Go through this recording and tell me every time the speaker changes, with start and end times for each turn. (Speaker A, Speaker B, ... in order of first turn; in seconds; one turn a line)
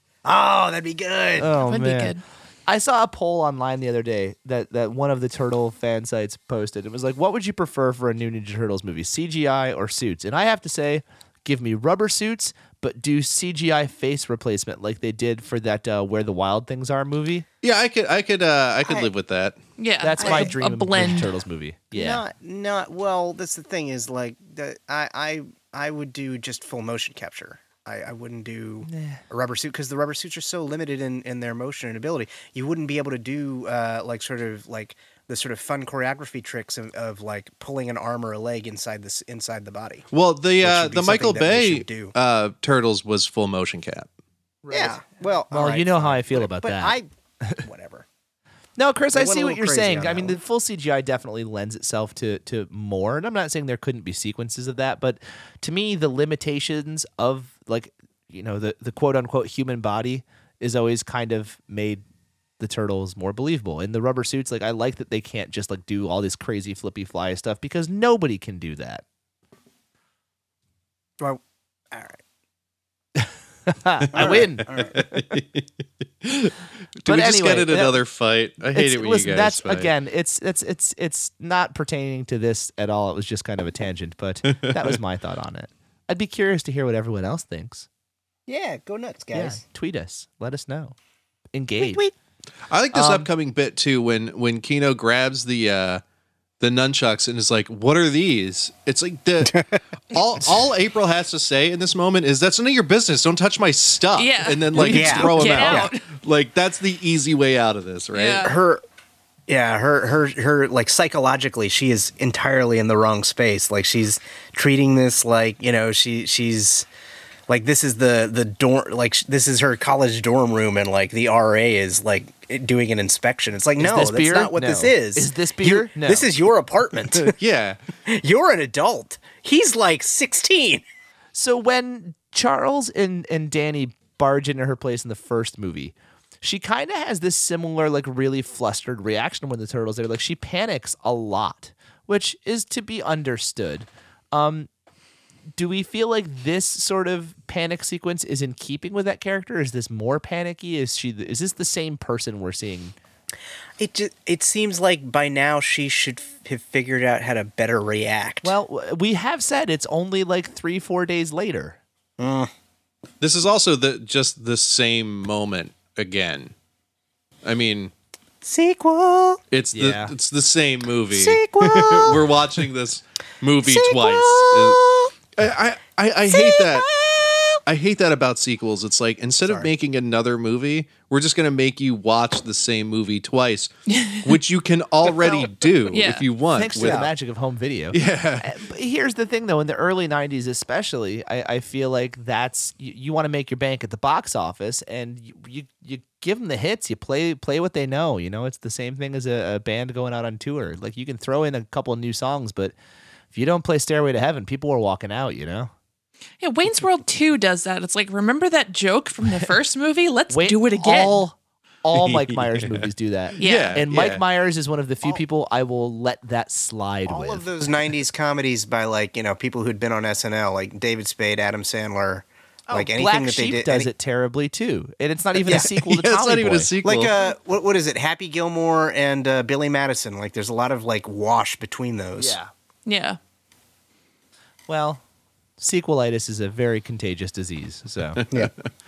Speaker A: 0.2-1.5
Speaker B: 1.4-17.4
Speaker C: 1.6-2.2
Speaker D: 17.6-19.6
Speaker A: 18.8-19.1
Speaker C: 19.8-21.3
Speaker B: 20.0-22.2
Speaker A: 20.2-20.5
Speaker A: 21.9-40.1
Speaker B: 28.9-29.2
Speaker D: 40.1-44.1
Speaker A: 40.6-42.1
Speaker B: 44.6-47.6
Speaker A: 44.7-47.1
Speaker A: 47.6-48.0
Speaker B: 48.8-62.0
Speaker A: 49.1-50.4
Speaker B: 62.6-69.0
Speaker A: 71.9-72.2
Speaker B: 73.2-74.8
Speaker A: 74.1-75.0
Speaker D: 74.2-75.7
Speaker D: 76.2-79.9
Speaker B: 77.0-78.0
Speaker B: 78.7-87.9
Speaker D: 84.5-85.0
Speaker A: 88.5-89.6
Speaker B: 89.3-90.9
Speaker B: 91.5-92.1
Speaker A: 91.8-92.1
Speaker D: 92.7-96.0
Speaker B: 92.9-93.3
Speaker D: 96.6-108.5
Speaker A: 99.4-99.7
Speaker C: 104.1-106.0
Speaker B: 104.7-105.8
Speaker A: 104.8-105.9
Speaker C: 108.1-108.6
Speaker A: 108.4-108.8
Speaker A: 109.5-116.9
Speaker A: 117.5-127.3
Speaker B: 123.8-126.3
Speaker D: 127.3-127.8
Speaker A: 128.0-130.8
Speaker B: 131.3-144.7
Speaker B: 145.6-152.9
Speaker A: 153.8-158.5
Speaker B: 158.4-161.8
Speaker A: 162.2-162.5
Speaker D: 163.2-166.5
Speaker D: 167.4-167.9
Speaker A: 168.4-169.4
Speaker D: 169.5-176.9
Speaker B: 169.7-170.1
Speaker A: 171.1-172.3
Speaker A: 173.6-175.1
Speaker A: 176.3-177.6
Speaker D: 177.7-187.1
Speaker A: 179.4-179.7
Speaker C: 183.9-184.4
Speaker C: 185.9-186.3
Speaker B: 186.5-202.7
Speaker A: 186.8-187.1
Speaker D: 187.9-188.5
Speaker B: 203.3-205.7
Speaker C: 206.4-211.2
Speaker B: 210.3-217.5
Speaker D: 211.9-212.9
Speaker D: 213.4-214.2
Speaker C: 213.4-213.8
Speaker A: 217.1-223.9
Speaker B: 222.7-226.7
Speaker D: 225.7-227.1
Speaker A: 226.8-232.4
Speaker B: 232.2-232.5
Speaker C: 232.8-233.2
Speaker B: 234.7-235.0
Speaker B: 235.6-238.2